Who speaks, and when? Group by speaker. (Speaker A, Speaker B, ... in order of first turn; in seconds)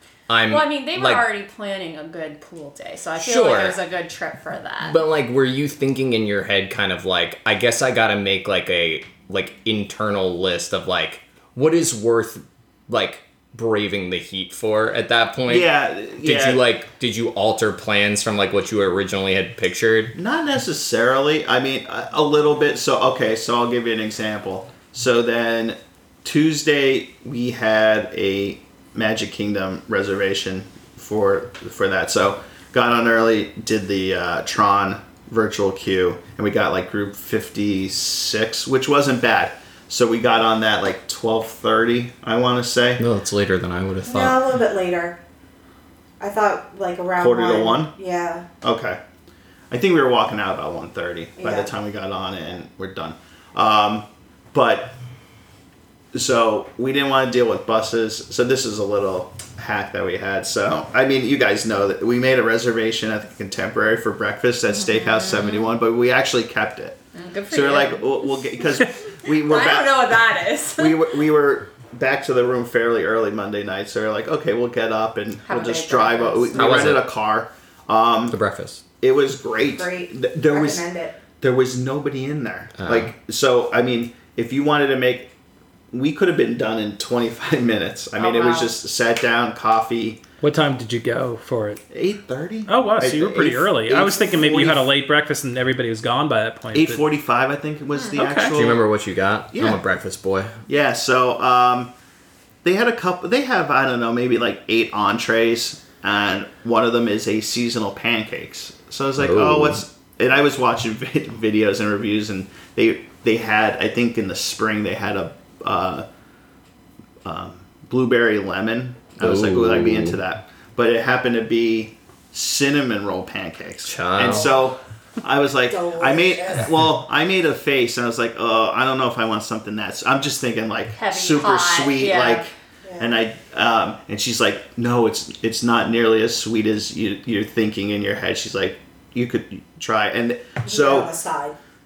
Speaker A: 0.3-1.2, 3.2-3.8, 4.8-20.1, 43.0-44.4, 76.5-77.1, 78.3-78.8, 82.8-83.1, 98.4-100.6, 109.2-109.8, 119.2-120.2, 123.8-124.5
Speaker B: 0.5-5.0, 64.8-65.6, 67.1-68.3, 69.2-71.1, 75.5-76.9, 88.2-88.8, 97.9-98.5, 130.9-132.4
Speaker C: 15.5-16.6, 20.1-43.0, 47.2-47.9, 48.6-49.0, 49.7-55.0, 56.1-67.0, 67.5-70.1, 70.8-78.4, 79.0-80.8, 81.4-85.3, 85.9-90.2, 91.9-94.9, 96.7-98.9, 99.5-99.8, 100.7-101.9, 102.6-116.1, 117.2-141.1
Speaker D: 44.1-45.2, 46.2-48.5, 51.4-51.7, 79.7-81.1, 125.7-126.7, 132.8-133.1, 140.6-141.6
Speaker E: 90.4-91.8, 92.7-97.0, 98.2-98.5